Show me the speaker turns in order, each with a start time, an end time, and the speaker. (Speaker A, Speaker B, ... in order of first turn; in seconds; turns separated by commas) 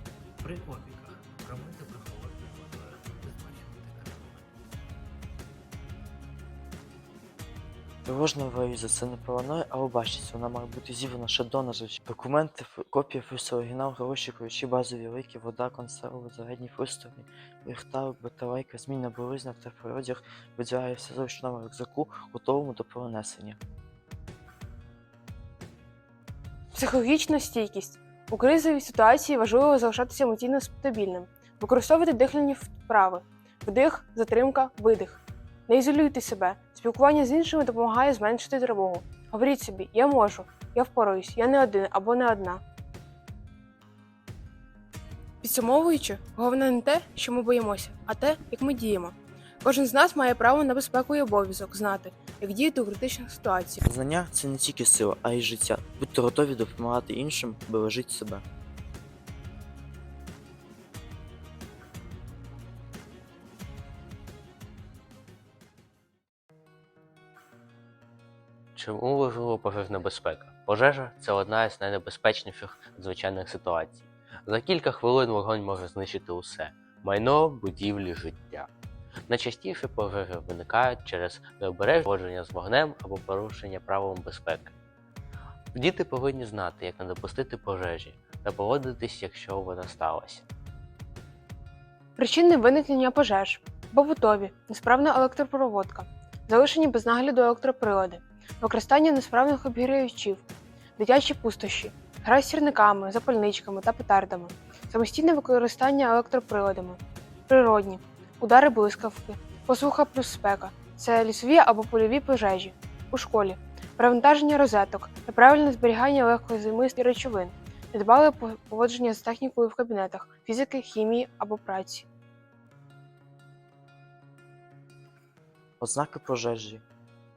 Speaker A: 0.4-4.5, Speaker B: 8.1-23.6, Speaker C: 26.7-42.6, Speaker C: 45.4-53.8, Speaker B: 53.8-58.4, Speaker A: 68.7-78.7, Speaker A: 79.3-84.7, Speaker A: 85.7-90.4, Speaker C: 92.2-100.4, Speaker C: 101.0-122.0, Speaker B: 125.8-126.8